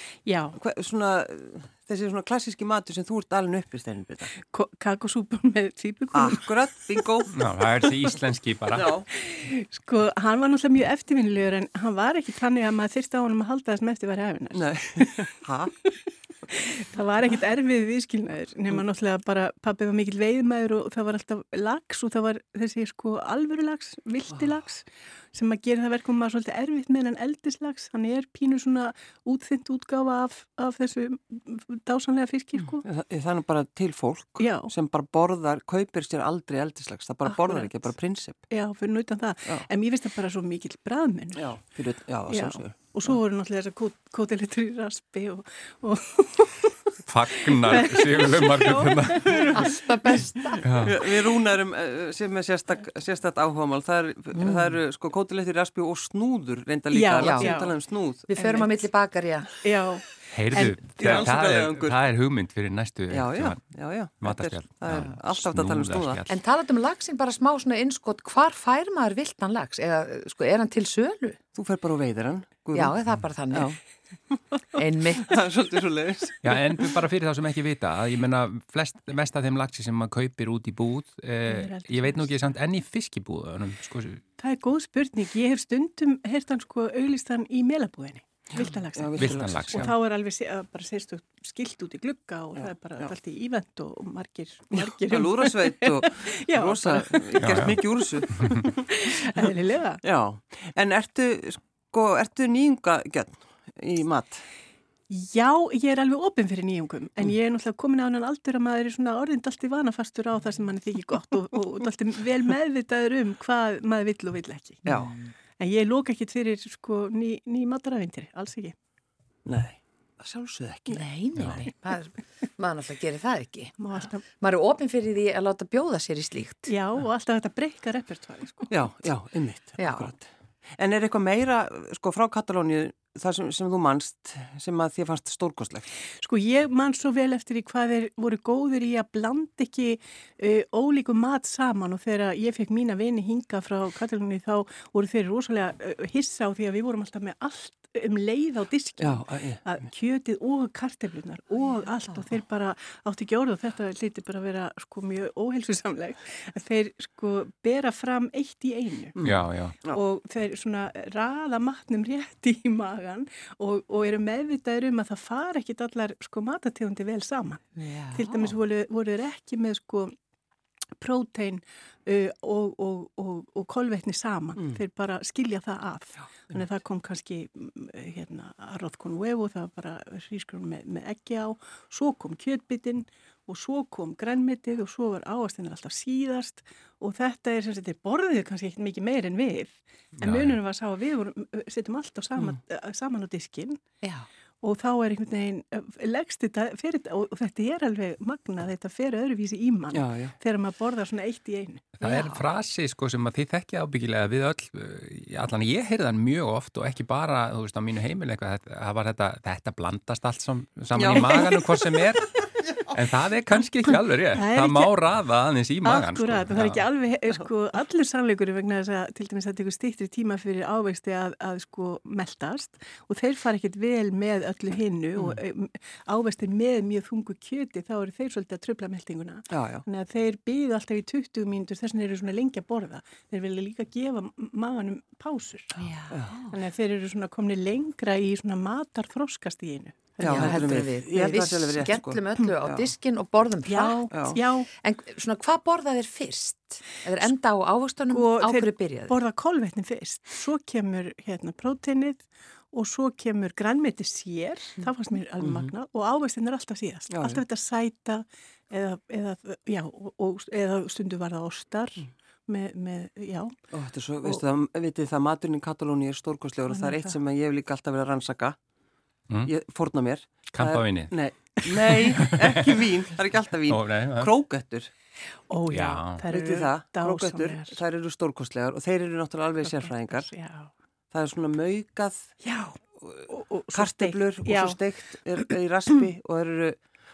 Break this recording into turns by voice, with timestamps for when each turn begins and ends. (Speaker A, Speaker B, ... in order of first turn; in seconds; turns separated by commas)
Speaker A: 0.2-0.6, Speaker B: 0.6-4.3, Speaker A: 4.4-7.0, Speaker B: 6.1-7.3, Speaker C: 7.3-8.9, Speaker B: 8.7-9.1, Speaker A: 9.2-15.2, Speaker B: 14.5-15.8, Speaker A: 16.5-32.8, Speaker B: 32.8-38.4, Speaker A: 34.4-34.7, Speaker A: 37.3-37.8, Speaker A: 38.5-41.5, Speaker B: 41.4-42.8, Speaker A: 42.3-46.8, Speaker C: 47.0-49.5, Speaker A: 47.5-50.1, Speaker D: 49.5-50.7, Speaker C: 50.6-50.9, Speaker B: 50.8-58.3, Speaker D: 54.3-54.8, Speaker A: 56.9-57.7, Speaker D: 57.2-57.6, Speaker D: 58.3-59.5, Speaker A: 58.4-58.8, Speaker A: 59.6-61.2, Speaker C: 60.3-63.6, Speaker B: 61.0-62.0, Speaker B: 63.1-66.2, Speaker C: 64.2-66.3, Speaker D: 66.3-71.4, Speaker B: 71.5-73.0, Speaker D: 72.7-73.7, Speaker B: 73.5-73.8, Speaker D: 74.7-75.4, Speaker B: 75.2-76.6, Speaker C: 76.4-84.2, Speaker A: 81.5-82.4, Speaker A: 84.4-97.4, Speaker B: 88.5-89.9, Speaker C: 89.2-89.9, Speaker B: 92.6-93.1, Speaker B: 94.9-98.7, Speaker C: 97.4-97.8, Speaker A: 98.4-100.0, Speaker B: 100.0-104.4, Speaker A: 105.1-114.8, Speaker B: 114.8-115.2, Speaker D: 115.0-115.3, Speaker A: 115.6-118.7, Speaker B: 119.5-121.0, Speaker D: 120.9-126.8, Speaker A: 123.8-124.2, Speaker A: 126.7-128.7, Speaker B: 128.7-130.2, Speaker D: 129.8-130.1, Speaker B: 130.8-135.9, Speaker A: 136.2-159.2, Speaker B: 149.0-149.6, Speaker B: 159.2-160.0, Speaker C: 159.2-159.8, Speaker A: 159.9-170.1, Speaker D: 167.8-168.5, Speaker A: 171.0-193.8, Speaker C: 190.2-190.6, Speaker A: 194.6-201.9, Speaker B: 199.9-200.3, Speaker C: 202.0-216.8, Speaker D: 202.0-202.5, Speaker B: 210.9-211.6, Speaker A: 214.3-214.9, Speaker A: 215.8-235.8, Speaker B: 229.5-229.8, Speaker D: 235.8-236.5, Speaker A: 236.5-240.5, Speaker B: 240.2-242.9, Speaker D: 240.2-244.1, Speaker A: 243.6-244.7, Speaker B: 244.1-244.4, Speaker D: 244.7-249.2, Speaker A: 248.1-263.6, Speaker B: 255.4-255.7, Speaker B: 257.1-257.4, Speaker B: 263.7-268.6, Speaker A: 266.7-267.2, Speaker B: 269.4-274.9, Speaker C: 270.5-271.1, Speaker C: 272.0-272.8, Speaker C: 273.6-274.3, Speaker A: 275.5-277.8, Speaker C: 275.7-276.2, Speaker B: 276.3-280.3, Speaker A: 279.7-280.7, Speaker B: 281.1-282.3, Speaker A: 282.4-284.8, Speaker B: 283.0-286.8